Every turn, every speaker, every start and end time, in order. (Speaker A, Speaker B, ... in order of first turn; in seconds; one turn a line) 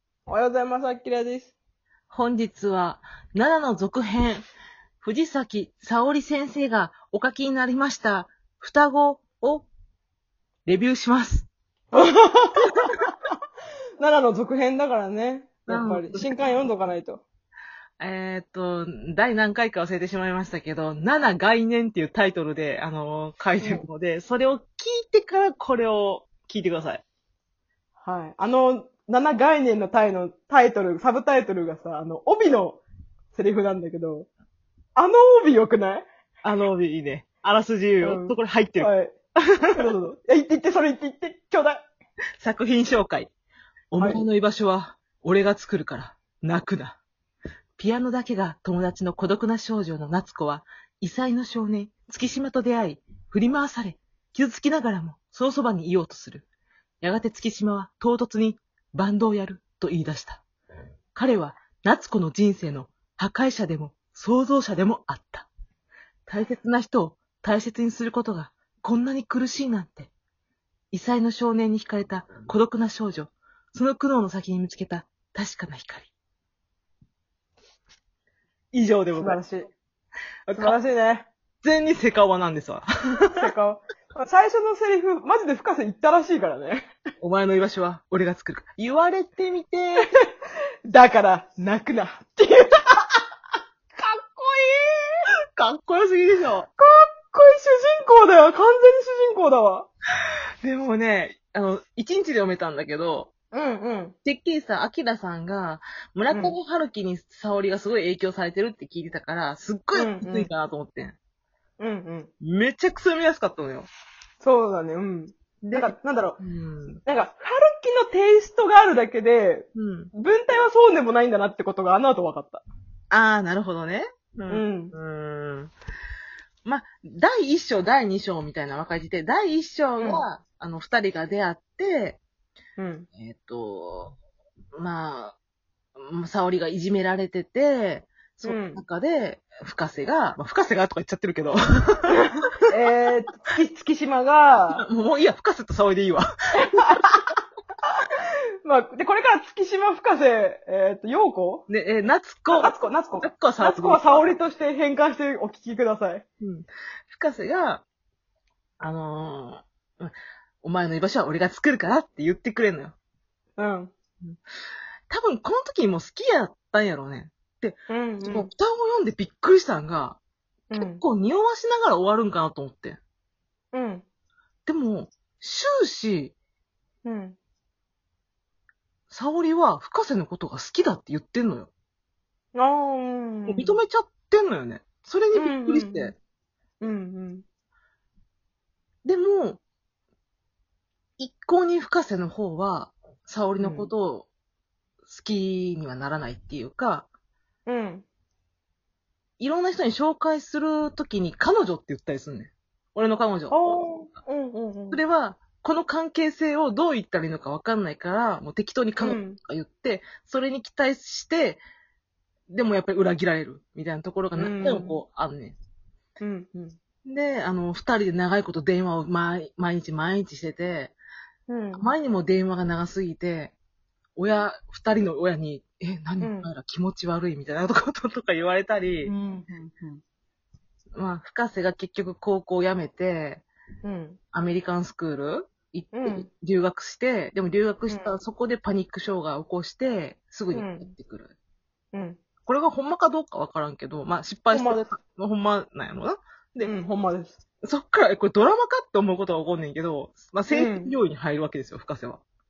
Speaker A: 0.3-1.5
Speaker B: 2.1-4.4
Speaker B: 5.0-9.7
Speaker B: 10.7-11.5
Speaker A: 11.9-13.1
Speaker A: 14.0-17.2
Speaker B: 15.7-16.5
Speaker B: 18.0-27.0
Speaker A: 23.6-23.8
Speaker A: 28.0-32.8
Speaker A: 33.3-34.3
Speaker A: 35.0-36.0
Speaker B: 36.4-38.9
Speaker A: 38.0-39.1
Speaker A: 39.7-41.9
Speaker B: 42.4-43.3
Speaker B: 43.9-47.0
Speaker B: 47.8-56.5
Speaker B: 57.0-60.4
Speaker B: 61.1-65.5
Speaker B: 66.3-70.1
Speaker B: 70.9-76.1
Speaker B: 78.7-79.4
Speaker A: 79.1-79.7
Speaker B: 80.5-80.8
Speaker A: 80.5-81.3
Speaker B: 81.6-83.3
Speaker A: 83.3-86.9
Speaker B: 87.2-90.1
Speaker A: 90.9-93.2
Speaker A: 94.0-95.1
Speaker B: 95.6-96.7
Speaker A: 96.8-99.9
Speaker B: 100.6-103.3
Speaker A: 103.5-104.1
Speaker B: 104.2-111.2
Speaker A: 106.3-106.5
Speaker A: 109.9-110.5
Speaker A: 111.8-112.3
Speaker B: 112.4-113.9
Speaker A: 114.4-116.4
Speaker B: 115.6-117.0
Speaker A: 117.0-122.7
Speaker B: 119.7-120.1
Speaker B: 123.1-125.7
Speaker A: 124.5-124.9
Speaker B: 126.6-132.2
Speaker A: 130.0-130.2
Speaker A: 132.8-133.1
Speaker B: 133.1-134.1
Speaker B: 134.8-135.3
Speaker B: 136.0-142.1
Speaker A: 138.4-138.8
Speaker A: 142.1-144.8
Speaker B: 144.7-146.2
Speaker A: 146.7-147.3
Speaker B: 146.8-147.2
Speaker A: 148.6-151.7
Speaker B: 151.7-154.0
Speaker A: 152.5-156.2
Speaker B: 156.4-157.8
Speaker B: 158.8-162.9
Speaker A: 163.6-163.9
Speaker B: 165.1-170.2
Speaker A: 167.9-168.5
Speaker A: 170.7-171.0
Speaker B: 170.7-173.0
Speaker A: 173.7-174.0
Speaker B: 174.7-176.3
Speaker A: 177.0-177.4
Speaker B: 179.1-181.7
Speaker A: 182.5-183.8
Speaker B: 183.5-186.1
Speaker A: 185.3-186.1
Speaker A: 186.8-187.4
Speaker B: 189.0-189.6
Speaker B: 191.2-194.3
Speaker A: 193.6-193.9
Speaker B: 195.0-197.1
Speaker A: 197.7-198.0
Speaker B: 199.4-203.6
Speaker A: 203.5-205.0
Speaker B: 204.9-211.6
Speaker A: 209.0-209.4
Speaker B: 212.5-215.6
Speaker A: 214.4-215.0
Speaker A: 216.2-216.8
Speaker B: 217.1-220.9
Speaker A: 221.5-221.9
Speaker B: 221.8-223.5
Speaker B: 224.2-229.1
Speaker A: 226.2-226.5
Speaker A: 229.0-230.0
Speaker B: 230.9-233.4
Speaker A: 233.8-234.2
Speaker B: 234.3-241.3
Speaker A: 235.9-236.3
Speaker A: 237.9-238.1
Speaker A: 240.5-240.9
Speaker A: 241.9-242.2
Speaker B: 242.4-246.7
Speaker A: 244.5-244.8
Speaker A: 246.6-247.4
Speaker B: 247.6-252.2
Speaker A: 250.5-250.9